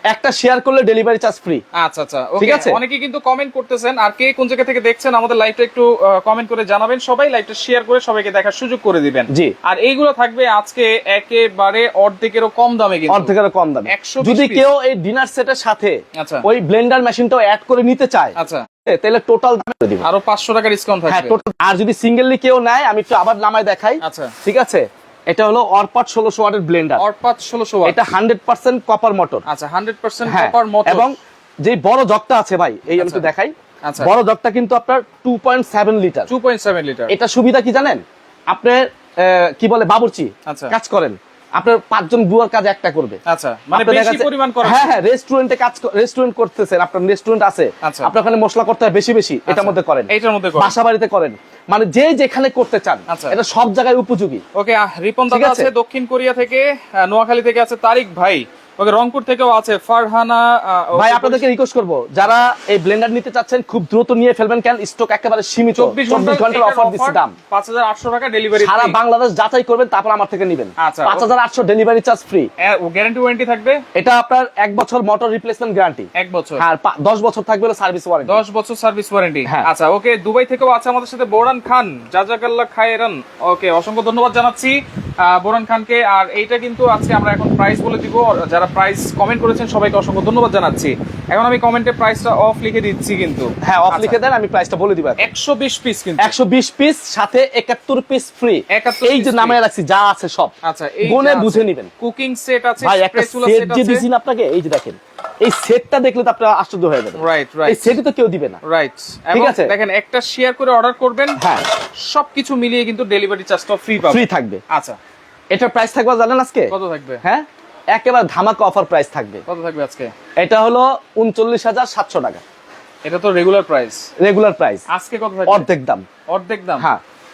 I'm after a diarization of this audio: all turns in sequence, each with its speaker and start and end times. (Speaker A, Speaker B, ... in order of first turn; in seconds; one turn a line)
Speaker A: 0.1-1.6
Speaker B: 1.7-13.3
Speaker A: 2.4-2.8
Speaker A: 9.3-9.5
Speaker A: 13.1-18.3
Speaker B: 13.8-14.7
Speaker B: 16.2-16.4
Speaker B: 18.4-18.6
Speaker A: 18.9-20.0
Speaker B: 20.0-21.4
Speaker A: 21.1-27.0
Speaker B: 24.0-24.3
Speaker B: 27.0-28.1
Speaker A: 27.9-29.4
Speaker B: 29.4-31.1
Speaker A: 30.2-36.3
Speaker B: 33.0-33.3
Speaker B: 33.8-34.1
Speaker B: 36.3-37.1
Speaker A: 37.1-43.2
Speaker B: 40.5-40.7
Speaker B: 43.2-45.0
Speaker A: 43.7-54.4
Speaker B: 47.8-48.1
Speaker B: 49.5-50.8
Speaker B: 53.1-53.4
Speaker B: 54.5-61.5
Speaker A: 55.3-55.7
Speaker A: 61.0-67.3
Speaker B: 65.8-69.0
Speaker A: 68.5-72.5
Speaker B: 70.8-71.3
Speaker B: 72.6-73.8
Speaker A: 73.9-78.4
Speaker B: 76.1-76.6
Speaker B: 78.2-94.2
Speaker A: 93.6-95.3
Speaker B: 95.2-96.3
Speaker A: 96.2-101.9
Speaker B: 98.7-99.6
Speaker B: 100.6-104.0
Speaker A: 102.8-108.6
Speaker B: 107.2-107.9
Speaker B: 108.6-111.4
Speaker A: 109.3-109.7
Speaker A: 111.4-111.6
Speaker B: 112.0-115.0
Speaker A: 114.0-114.6
Speaker A: 115.5-119.4
Speaker B: 116.7-117.2
Speaker B: 119.5-120.1
Speaker A: 120.4-122.4
Speaker B: 123.0-124.1
Speaker A: 124.2-124.8
Speaker B: 124.9-125.7
Speaker A: 125.5-126.0
Speaker B: 126.3-126.8